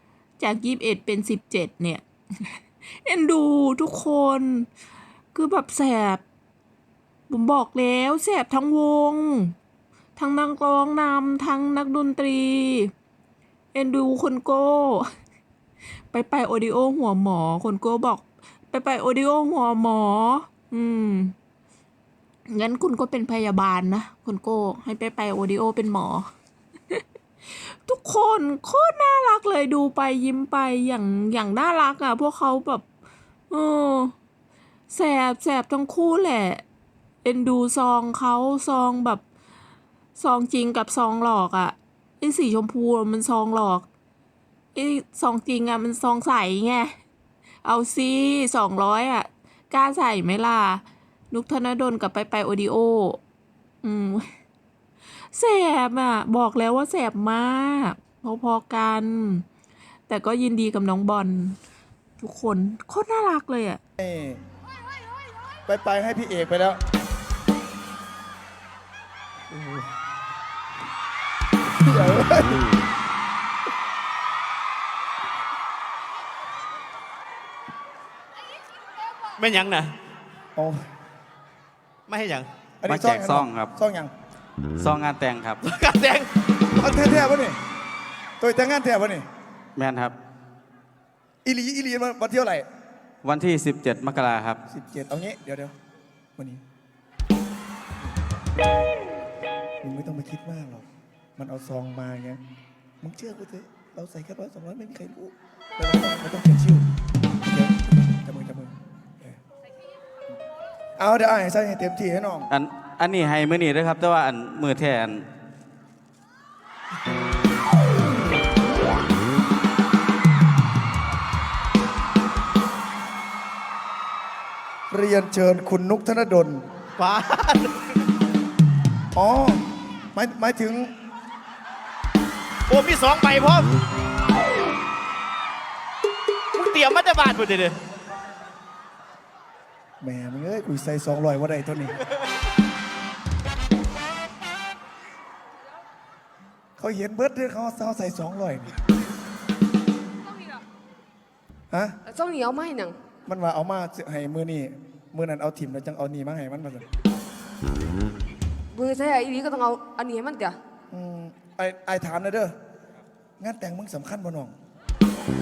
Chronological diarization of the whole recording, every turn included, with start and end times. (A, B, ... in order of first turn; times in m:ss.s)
0:00.4-0:04.7 A
0:05.3-0:06.2 A
0:07.3-0:09.6 A
0:10.2-0:12.9 A
0:13.7-0:15.1 A
0:16.1-0:21.3 A
0:22.5-0:26.3 A
0:27.8-0:32.8 A
0:33.5-0:34.1 A
0:34.9-0:36.6 A
0:37.2-0:39.2 A
0:40.2-0:43.9 A
0:44.8-0:47.0 A
0:47.6-0:53.2 A
0:53.8-0:54.3 A
0:55.3-0:59.5 A
1:00.1-1:01.6 A
1:02.2-1:03.8 A
1:04.0-1:04.4 B
1:05.7-1:06.8 B
1:09.5-1:09.9 B
1:11.8-1:12.7 B
1:19.4-1:19.9 C
1:20.6-1:20.8 B
1:22.1-1:22.5 C
1:22.8-1:24.1 B
1:22.9-1:23.7 D
1:24.8-1:25.6 D
1:25.6-1:26.3 C
1:26.8-1:27.6 B
1:28.4-1:29.2 B
1:29.8-1:30.2 D
1:31.4-1:32.7 B
1:33.2-1:34.6 D
1:34.7-1:35.7 B
1:39.8-1:40.9 B
1:41.4-1:42.4 B
1:43.0-1:46.9 B
1:47.4-1:49.4 B
1:51.0-1:52.5 B
1:52.5-1:55.3 D
2:04.9-2:06.6 B
2:07.0-2:07.8 C
2:09.2-2:10.9 B
2:12.7-2:13.7 C
2:16.5-2:17.8 C
2:20.0-2:22.0 B
2:26.8-2:28.8 B
2:30.3-2:30.6 E
2:31.7-2:32.0 B
2:32.1-2:33.0 E
2:33.3-2:36.9 B
2:38.7-2:40.6 E
2:40.9-2:42.6 B
2:43.4-2:44.5 B